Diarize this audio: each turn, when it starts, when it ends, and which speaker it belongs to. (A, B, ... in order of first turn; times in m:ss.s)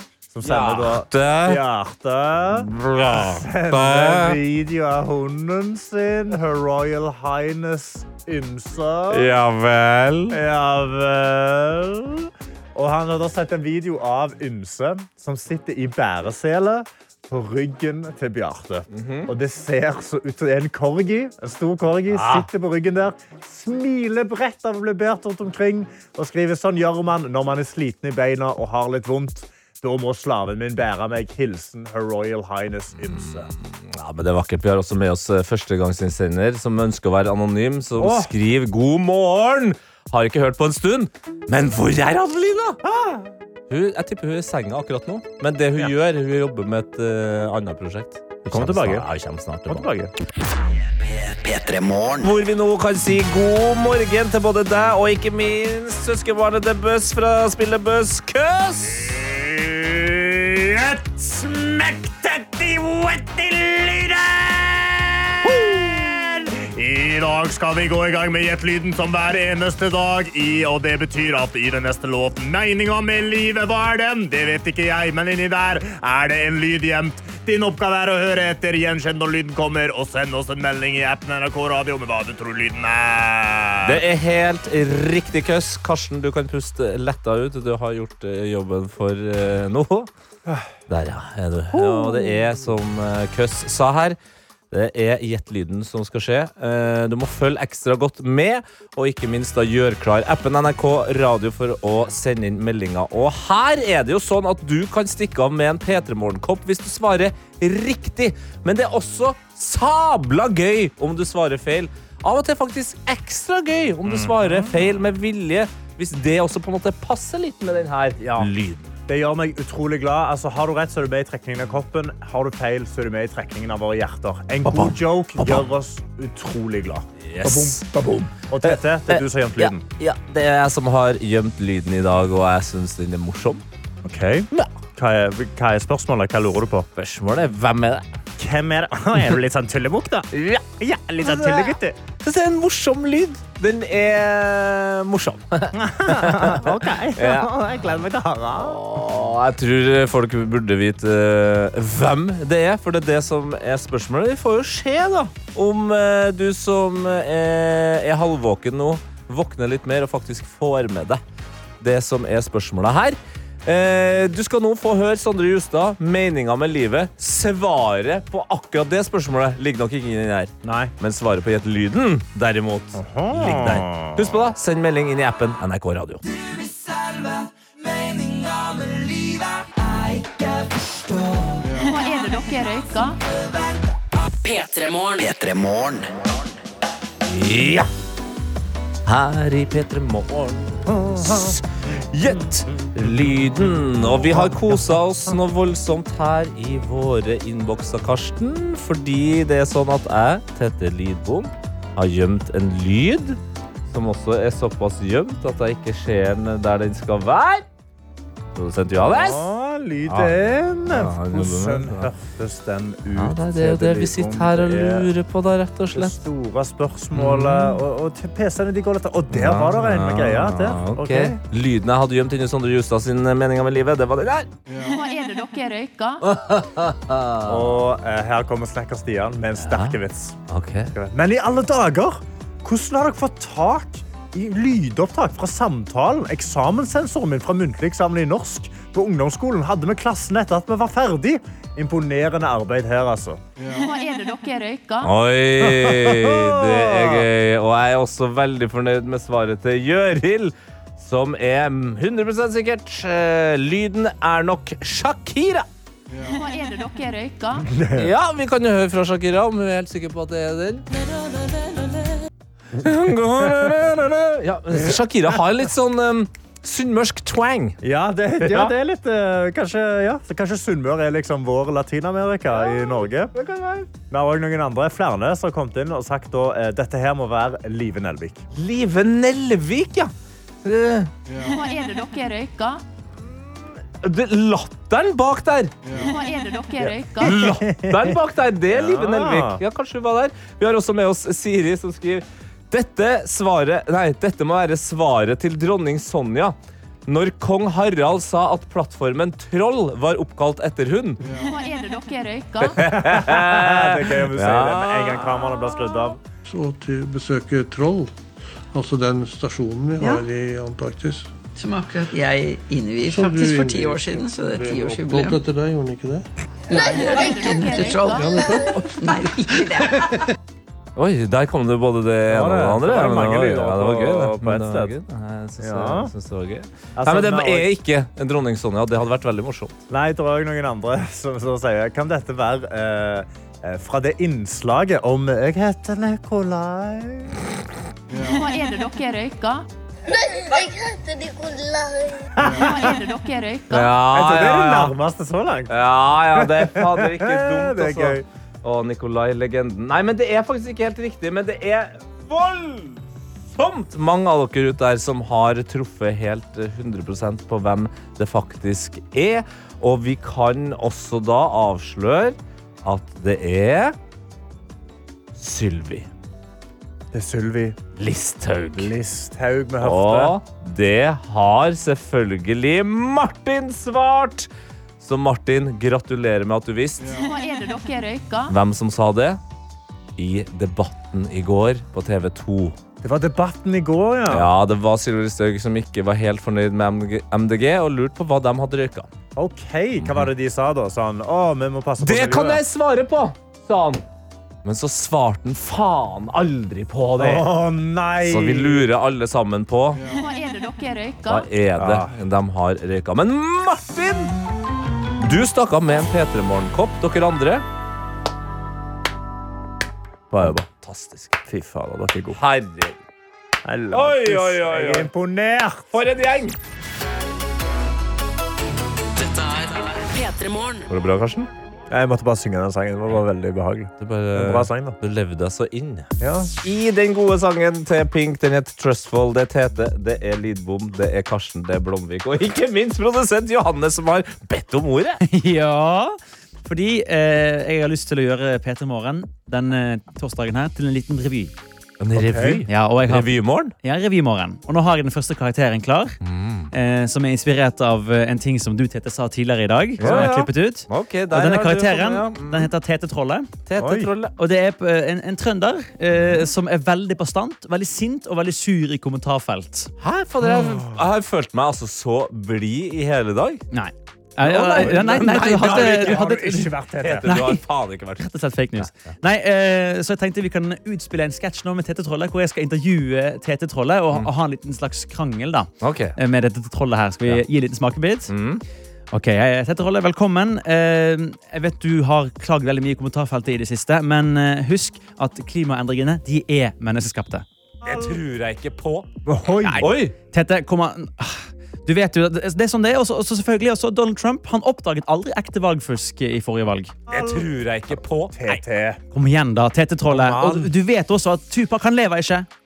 0:00.3-0:09.3 A
0:00.4-0:01.6 B
0:02.5-0:04.4 B
0:09.1-0:10.4 B
0:10.3-0:33.5 A
0:18.9-0:19.3 B
0:22.1-0:22.5 B
0:33.0-0:42.8 B
0:38.0-0:38.3 A
0:42.8-0:43.3 A
0:43.7-0:49.9 B
0:48.5-0:49.0 A
0:49.7-0:50.1 A
0:50.9-0:52.3 C
0:52.2-0:59.2 B
0:59.1-1:24.0 A
1:23.8-1:30.1 B
1:30.9-1:34.2 B
1:31.7-1:32.4 A
1:34.7-1:58.9 B
1:54.0-1:54.8 A
1:59.1-2:09.8 A
2:04.6-2:05.6 B
2:07.2-2:13.6 B
2:14.0-2:16.9 A
2:17.0-2:18.0 B
2:18.4-2:22.0 A
2:20.3-2:20.6 B
2:21.2-2:27.5 B
2:25.7-2:28.8 A
2:28.6-2:41.2 B
2:41.8-2:56.2 B
2:50.6-2:50.9 A
2:52.9-2:54.3 A
3:01.6-3:03.2 D
3:04.4-3:05.3 E
3:05.2-3:06.4 C
3:07.2-3:07.9 B
3:09.0-3:27.6 B
3:10.9-3:11.6 A
3:14.2-3:14.5 A
3:28.5-3:29.4 B
3:29.0-3:35.1 A
3:30.1-3:30.3 B
3:30.8-3:32.1 B
3:33.1-3:36.2 B
3:35.9-3:41.4 A
3:37.1-3:37.8 B
3:39.3-3:44.5 B
3:44.7-3:46.2 D
3:46.2-3:47.8 B
3:47.4-3:50.4 A
3:49.6-3:50.0 B
3:50.5-3:50.9 B
3:50.9-4:03.4 A
4:03.6-4:05.1 D
4:05.0-4:15.6 B
4:05.6-4:07.2 A
4:16.1-4:17.7 D
4:17.7-4:18.1 A
4:17.9-4:22.2 B
4:22.7-4:27.8 B
4:27.8-4:33.3 A
4:28.4-4:28.7 B
4:32.6-4:33.9 B
4:34.1-4:38.4 A
4:38.5-4:40.1 B
4:40.6-4:41.1 B
4:41.3-4:42.8 D
4:43.9-4:45.7 B
4:45.9-4:47.5 D
4:47.2-4:48.2 A
4:47.2-4:56.5 B
4:48.7-4:49.6 A
4:57.1-5:01.2 B
5:01.2-5:02.8 D
5:02.6-5:05.2 B
5:02.8-5:06.2 A
5:06.4-5:08.1 F
5:08.7-5:11.3 F
5:11.5-5:15.4 G
5:13.1-5:16.2 F
5:16.7-5:20.2 G
5:16.8-5:18.4 D
5:18.0-5:18.9 F
5:21.0-5:29.8 B
5:22.3-5:24.9 A
5:25.6-5:26.1 A
5:27.0-5:27.7 A
5:29.9-5:37.4 A
5:38.1-5:39.7 D
5:42.4-5:42.8 A
5:42.4-5:43.9 D
5:43.7-5:44.9 B
5:44.0-5:45.7 A
5:45.7-5:53.0 B
5:46.3-5:48.2 A
5:53.5-6:04.0 B
6:05.4-6:06.1 B
6:07.1-6:07.8 A
6:08.0-6:08.9 B
6:08.7-6:10.4 A
6:09.8-6:14.5 B
6:15.0-6:17.0 B
6:17.0-6:18.5 D
6:18.5-6:19.4 B
6:20.2-6:22.8 B
6:23.0-6:24.5 A
6:24.3-6:29.1 B
6:29.4-6:32.6 A
6:30.0-6:30.3 B
6:32.0-6:34.0 B
6:34.6-6:37.5 B
6:37.2-6:38.9 A
6:38.2-6:40.0 B
6:40.0-6:41.5 D
6:41.3-6:44.3 B
6:41.8-6:42.1 A
6:45.2-6:47.6 B
6:50.3-6:51.4 B
6:50.3-6:50.6 A
6:51.5-6:52.4 A
6:52.3-6:53.0 B
6:53.6-6:56.0 A
6:53.9-6:55.1 B
6:55.9-6:56.6 B
6:59.1-7:00.9 E
7:00.9-7:01.5 B
7:01.9-7:05.0 A
7:04.0-7:06.1 B
7:06.2-7:06.5 A
7:06.6-7:15.2 B
7:15.2-7:21.5 H
7:22.0-7:23.7 B
7:22.1-7:22.6 A
7:22.7-7:26.2 H
7:26.2-7:26.7 B
7:26.7-7:33.5 H
7:30.0-7:30.5 A
7:30.0-7:32.7 B
7:33.7-7:34.3 B
7:33.8-7:34.1 A
7:34.4-7:39.9 H
7:40.0-7:43.6 B
7:40.4-7:41.0 A
7:43.7-7:47.6 H
7:44.4-7:46.2 B
7:44.7-7:47.4 A
7:47.0-7:48.3 B
7:48.2-7:58.3 H
7:55.8-7:56.2 B
7:58.3-7:58.6 B
7:59.1-8:07.4 H
8:07.8-8:09.1 B
8:09.2-8:09.9 A
8:09.6-8:16.9 H
8:09.8-8:10.1 B
8:17.1-8:18.4 B
8:18.3-8:19.0 A
8:19.1-8:22.5 H
8:20.1-8:20.7 A